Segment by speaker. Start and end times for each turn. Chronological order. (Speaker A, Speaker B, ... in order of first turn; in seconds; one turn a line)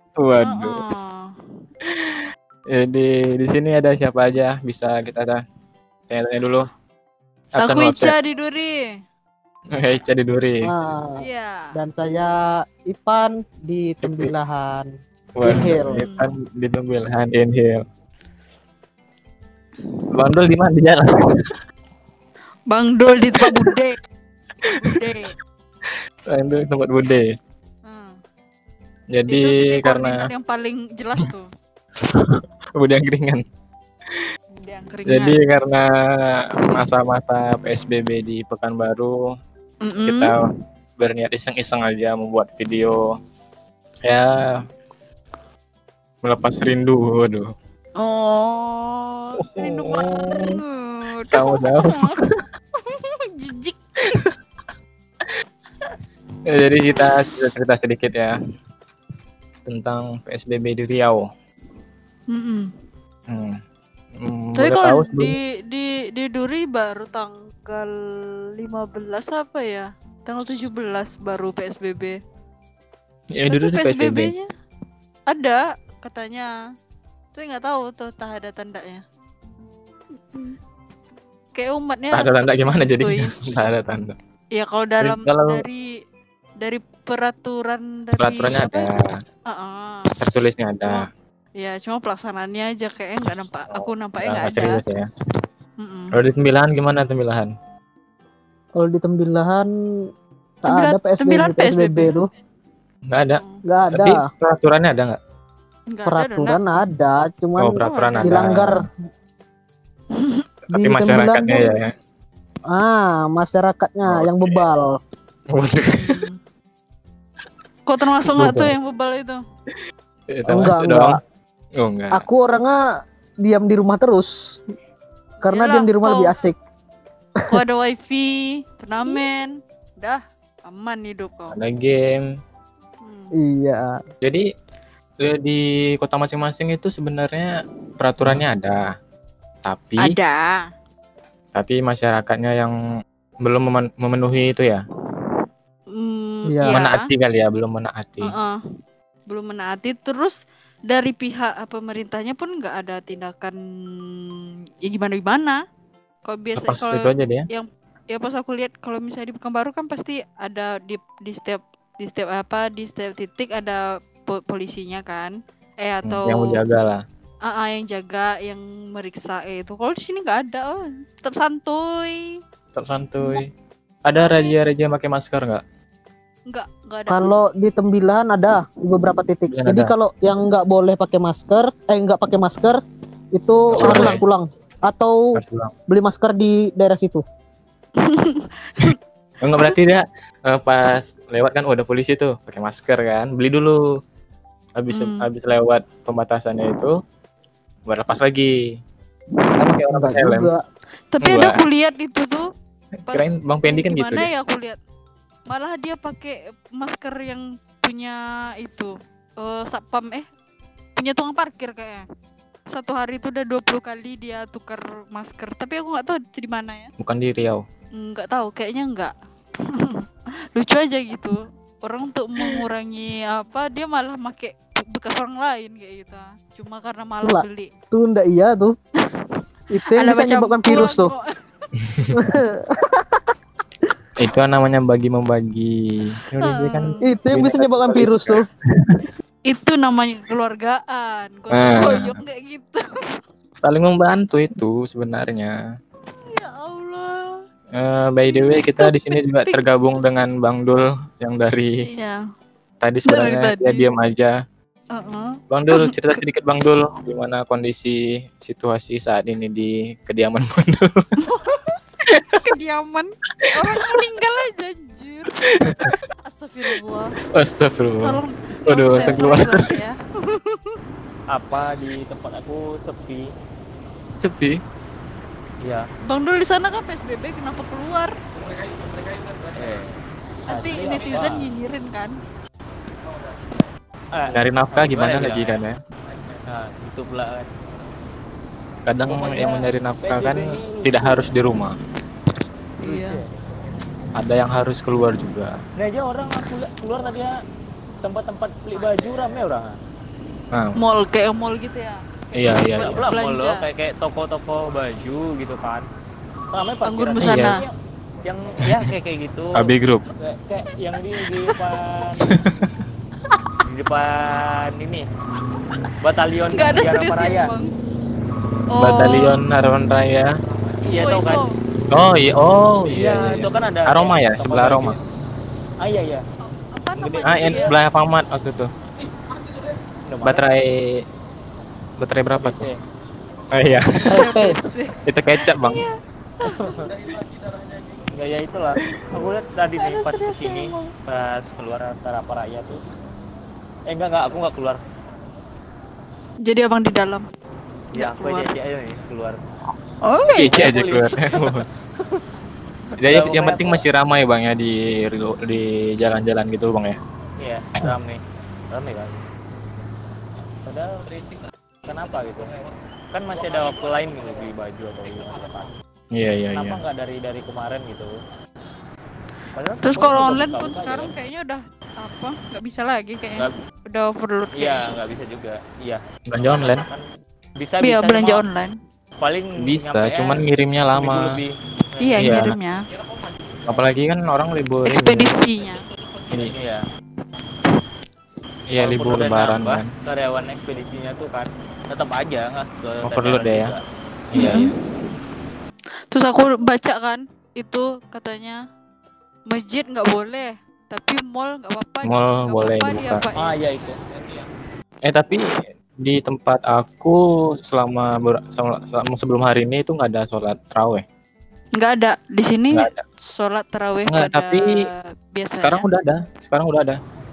Speaker A: 0.2-0.8
Speaker B: 0.4-1.3
Speaker A: 1.8-2.2
Speaker A: 2.7-5.4
Speaker A: 6.1-6.7
Speaker A: 7.5-8.1
Speaker B: 7.6-8.9
Speaker A: 9.7-10.7
Speaker C: 10.6-16.1
Speaker B: 11.2-11.8
Speaker A: 14.0-14.3
Speaker A: 15.4-17.8
Speaker B: 15.9-16.3
Speaker A: 20.1-21.6
Speaker B: 22.7-24.0
Speaker A: 23.4-23.8
Speaker B: 24.7-25.3
Speaker A: 26.3-27.3
Speaker B: 27.8-28.2
Speaker A: 29.1-30.2
Speaker B: 29.3-31.5
Speaker A: 32.0-33.4
Speaker B: 34.6-35.4
Speaker A: 35.0-39.3
Speaker B: 39.8-40.4
Speaker A: 40.0-40.4
Speaker A: 41.0-43.0
Speaker A: 44.0-44.6
Speaker A: 46.2-47.5
Speaker B: 48.0-54.3
Speaker A: 49.4-50.6
Speaker A: 51.3-52.1
Speaker A: 56.5-58.4
Speaker B: 56.9-57.3
Speaker A: 59.7-61.3
Speaker B: 62.3-62.7
Speaker A: 63.3-63.6
Speaker A: 64.2-65.3
Speaker B: 64.6-72.2
Speaker A: 73.3-74.3
Speaker B: 73.5-74.5
Speaker B: 75.3-76.5
Speaker B: 77.3-79.0
Speaker B: 80.3-80.6
Speaker B: 81.5-83.3
Speaker A: 82.1-84.1
Speaker B: 84.5-85.9
Speaker A: 85.0-85.6
Speaker B: 86.6-88.9
Speaker A: 88.2-89.1
Speaker B: 89.5-90.2
Speaker A: 90.2-91.0
Speaker B: 90.8-94.8
Speaker A: 93.7-95.1
Speaker B: 95.8-96.1
Speaker A: 96.1-97.5
Speaker C: 98.8-99.7
Speaker C: 100.6-102.3
Speaker B: 100.7-102.2
Speaker A: 103.1-105.2
Speaker B: 103.3-103.6
Speaker C: 103.6-104.2
Speaker B: 105.9-106.6
Speaker C: 106.1-108.9
Speaker A: 107.6-108.8
Speaker B: 107.8-108.5
Speaker B: 110.1-110.5
Speaker A: 110.7-111.9
Speaker C: 110.7-111.8
Speaker C: 112.7-115.0
Speaker A: 114.1-114.6
Speaker A: 115.5-116.1
Speaker B: 115.9-116.4
Speaker B: 117.9-119.4
Speaker A: 118.4-118.7
Speaker A: 120.3-121.2
Speaker C: 120.5-121.2
Speaker A: 121.8-122.3
Speaker C: 122.1-122.8
Speaker C: 123.4-124.6
Speaker B: 125.4-126.3
Speaker C: 125.4-126.5
Speaker B: 127.5-131.6
Speaker A: 131.5-132.2
Speaker B: 133.0-133.3
Speaker C: 133.3-134.0
Speaker A: 135.2-138.8
Speaker A: 139.6-140.2
Speaker B: 140.0-140.6
Speaker A: 141.5-142.7
Speaker A: 143.4-144.8
Speaker B: 145.9-147.1
Speaker C: 146.4-146.8
Speaker A: 146.7-148.3
Speaker B: 148.2-148.6
Speaker B: 149.3-155.6
Speaker B: 156.2-166.6
Speaker A: 156.6-157.4
Speaker A: 166.0-167.0
Speaker B: 167.4-172.4
Speaker A: 172.7-173.5
Speaker A: 174.1-175.6
Speaker B: 174.2-174.5
Speaker B: 176.5-177.3
Speaker C: 177.1-182.8
Speaker A: 179.5-179.9
Speaker C: 183.3-185.3
Speaker A: 183.7-184.2
Speaker A: 185.3-185.7
Speaker C: 185.9-187.2
Speaker B: 188.0-188.9
Speaker A: 189.4-193.8
Speaker A: 194.8-196.9
Speaker B: 194.9-195.3
Speaker A: 197.9-198.5
Speaker A: 199.6-200.5
Speaker C: 199.9-200.6
Speaker B: 201.1-202.5
Speaker A: 201.2-201.6
Speaker A: 203.1-204.3
Speaker B: 203.1-204.8
Speaker B: 205.5-210.2
Speaker B: 210.9-212.0
Speaker B: 212.7-216.9
Speaker A: 217.0-217.6
Speaker B: 217.9-219.1
Speaker B: 219.7-227.7
Speaker C: 227.2-228.8
Speaker B: 229.0-231.7
Speaker C: 229.7-231.1
Speaker A: 231.8-232.1
Speaker C: 232.1-233.2
Speaker A: 234.2-239.1
Speaker B: 236.4-237.0
Speaker C: 237.0-238.4
Speaker B: 239.5-242.8
Speaker A: 241.5-242.2
Speaker A: 243.6-245.5
Speaker B: 246.1-247.4
Speaker A: 247.7-251.8
Speaker B: 248.3-249.6
Speaker B: 251.8-252.2
Speaker A: 252.8-254.3
Speaker B: 253.1-253.9
Speaker B: 254.9-255.9
Speaker A: 255.5-261.1
Speaker B: 261.2-261.8
Speaker A: 262.1-262.4
Speaker B: 262.4-267.1
Speaker A: 263.4-264.0
Speaker A: 265.4-266.0
Speaker A: 267.3-269.7
Speaker B: 268.0-270.8
Speaker D: 268.9-269.6
Speaker D: 271.3-273.3
Speaker A: 274.2-274.6
Speaker D: 275.6-275.9
Speaker B: 276.1-278.1
Speaker D: 279.5-281.5
Speaker B: 280.5-282.1
Speaker D: 284.1-285.6
Speaker A: 284.3-285.8
Speaker D: 286.5-287.5
Speaker A: 288.9-291.8
Speaker D: 289.1-291.4
Speaker B: 292.8-293.2
Speaker D: 292.8-293.3
Speaker A: 294.2-295.6
Speaker D: 295.8-297.3
Speaker D: 298.0-299.8
Speaker A: 300.5-300.8
Speaker B: 300.8-303.6
Speaker A: 302.3-303.0
Speaker D: 302.8-305.9
Speaker D: 306.5-307.7
Speaker B: 306.8-307.6
Speaker A: 307.2-307.6
Speaker D: 308.2-312.3
Speaker A: 309.6-310.0
Speaker A: 312.2-312.8
Speaker D: 313.6-315.1
Speaker D: 316.0-317.5
Speaker B: 316.5-317.7
Speaker B: 318.7-319.4
Speaker A: 318.8-320.3
Speaker D: 320.8-321.4
Speaker B: 320.9-321.6
Speaker A: 321.9-325.0
Speaker D: 322.9-325.0
Speaker D: 325.8-326.2
Speaker B: 326.4-327.8
Speaker D: 326.9-327.8
Speaker A: 327.2-328.7
Speaker D: 330.1-330.5
Speaker A: 330.2-331.0
Speaker A: 332.0-332.7
Speaker D: 332.4-332.8
Speaker A: 333.5-334.4
Speaker C: 334.1-334.6
Speaker B: 334.1-336.9
Speaker A: 335.1-335.8
Speaker D: 336.4-336.9
Speaker D: 338.1-342.8
Speaker B: 339.8-340.9
Speaker D: 343.9-344.8
Speaker B: 346.4-347.2
Speaker B: 347.9-348.5
Speaker D: 347.9-349.4
Speaker B: 350.0-350.7
Speaker A: 350.3-351.6
Speaker D: 350.5-352.2
Speaker D: 353.0-353.8
Speaker A: 353.0-357.0
Speaker D: 357.4-358.2
Speaker D: 358.7-359.2
Speaker D: 360.6-361.1
Speaker D: 361.9-362.5
Speaker D: 363.1-365.7
Speaker A: 366.1-366.8
Speaker D: 366.5-368.1
Speaker D: 369.6-371.1
Speaker B: 369.8-374.8
Speaker D: 374.6-377.0
Speaker A: 376.3-376.8
Speaker D: 377.6-378.4
Speaker B: 377.8-378.7
Speaker D: 379.2-382.4
Speaker A: 379.6-381.3
Speaker B: 382.0-382.8
Speaker A: 382.2-382.6
Speaker A: 383.6-385.3
Speaker B: 384.8-385.8
Speaker D: 386.3-386.9
Speaker A: 388.7-389.9
Speaker D: 388.8-393.8
Speaker A: 393.0-393.7
Speaker A: 394.3-394.7
Speaker B: 394.3-394.8
Speaker B: 396.1-398.6
Speaker B: 399.5-403.5
Speaker A: 402.0-403.2
Speaker D: 403.3-404.0
Speaker A: 405.1-411.0
Speaker B: 411.8-415.8
Speaker A: 412.7-413.0
Speaker A: 414.1-414.8
Speaker A: 415.6-417.0